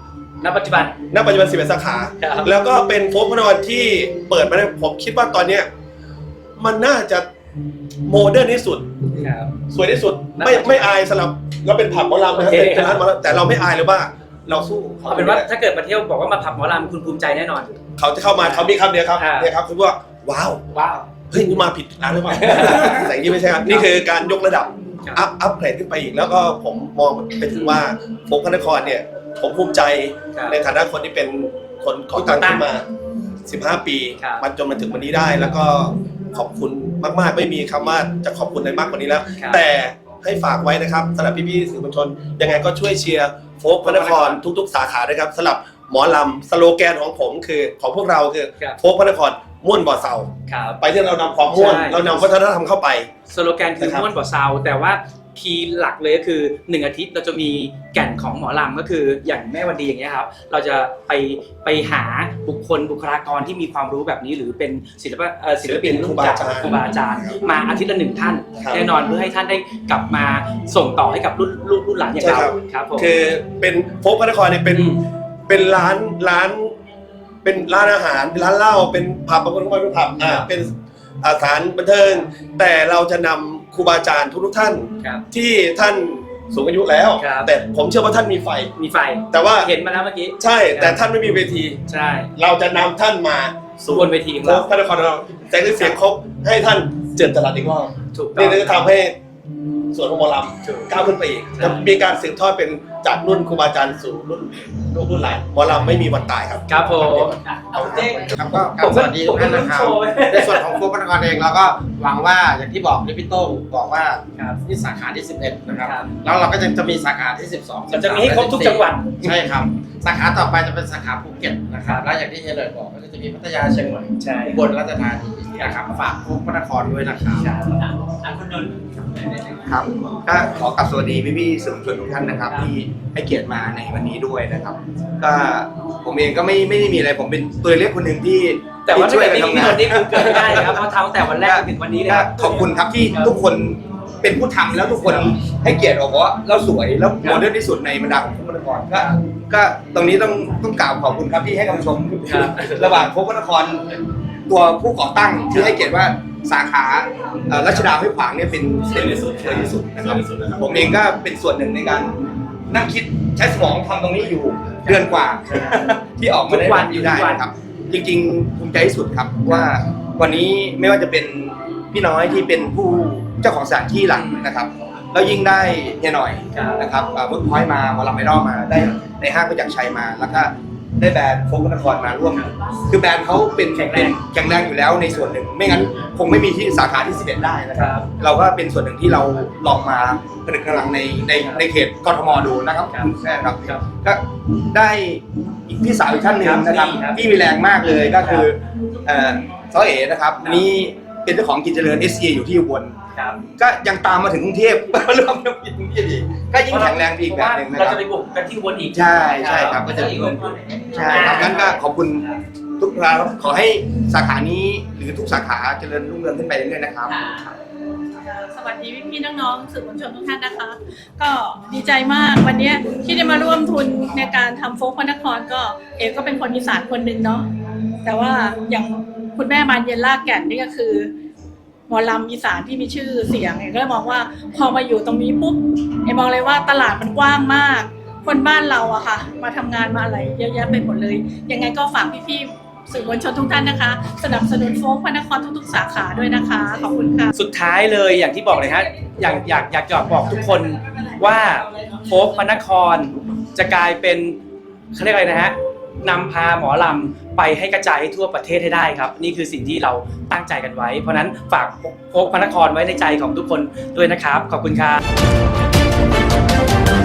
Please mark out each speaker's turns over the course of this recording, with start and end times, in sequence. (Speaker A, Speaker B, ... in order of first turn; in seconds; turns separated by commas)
Speaker A: 0.4-1.0, Speaker B: 1.1-5.7, Speaker A: 2.2-2.5, Speaker B: 6.6-7.2, Speaker B: 8.1-8.9, Speaker A: 9.2-9.5, Speaker B: 9.7-15.5, Speaker A: 10.4-11.0, Speaker A: 12.3-13.1, Speaker A: 15.1-17.8, Speaker B: 18.0-20.6, Speaker A: 18.4-19.5, Speaker A: 20.7-21.0, Speaker B: 21.3-32.9, Speaker A: 22.4-22.9, Speaker A: 23.6-23.9, Speaker A: 30.3-30.6, Speaker A: 32.1-32.7, Speaker B: 33.5-53.1, Speaker A: 34.2-34.4, Speaker A: 39.4-39.6, Speaker A: 43.8-44.5, Speaker A: 50.5-50.9, Speaker A: 51.5-52.2, Speaker A: 53.3-73.1, Speaker B: 53.8-54.1, Speaker B: 65.6-66.8, Speaker B: 68.6-68.9, Speaker B: 72.2-75.0, Speaker A: 74.7-75.0, Speaker B: 75.5-76.7, Speaker B: 77.4-88.7, Speaker A: 80.2-80.5, Speaker A: 87.2-87.5, Speaker A: 88.8-91.0, Speaker B: 89.3-89.7, Speaker B: 90.4-91.8, Speaker A: 91.9-92.3, Speaker B: 92.4-99.1, Speaker A: 93.9-94.7, Speaker A: 95.8-96.0, Speaker A: 98.1-98.9, Speaker B: 99.9-106.6, Speaker A: 100.6-101.9, Speaker A: 105.7-105.9, Speaker A: 106.7-110.8, Speaker C: 108.3-118.7, Speaker A: 114.3-114.6, Speaker A: 115.8-116.1, Speaker A: 117.9-119.4, Speaker C: 119.3-127.4, Speaker A: 121.8-122.1, Speaker A: 124.2-124.6, Speaker A: 127.4-128.7, Speaker D: 129.6-140.8, Speaker A: 132.5-132.7, Speaker A: 138.8-143.4, Speaker D: 141.4-153.9, Speaker A: 147.2-147.4, Speaker A: 152.2-153.1, Speaker D: 154.5-202.9, Speaker A: 155.4-155.9, Speaker A: 159.0-159.5, Speaker B: 160.2-160.6, Speaker A: 164.8-165.8, Speaker A: 166.4-167.5, Speaker A: 174.1-174.5, Speaker A: 176.5-176.9, Speaker A: 183.7-184.2, Speaker A: 187.8-188.1, Speaker A: 191.4-191.7, Speaker A: 192.9-193.9, Speaker A: 196.2-197.3, Speaker A: 198.0-198.5, Speaker A: 200.4-200.6, Speaker A: 203.1-203.4, Speaker D: 203.6-208.0, Speaker A: 206.6-212.4, Speaker D: 208.9-212.2, Speaker D: 212.8-217.2, Speaker A: 217.1-217.5, Speaker E: 218.3-227.4, Speaker E: 228.0-231.1, Speaker E: 231.9-247.3, Speaker A: 247.3-254.4, Speaker A: 254.9-265.0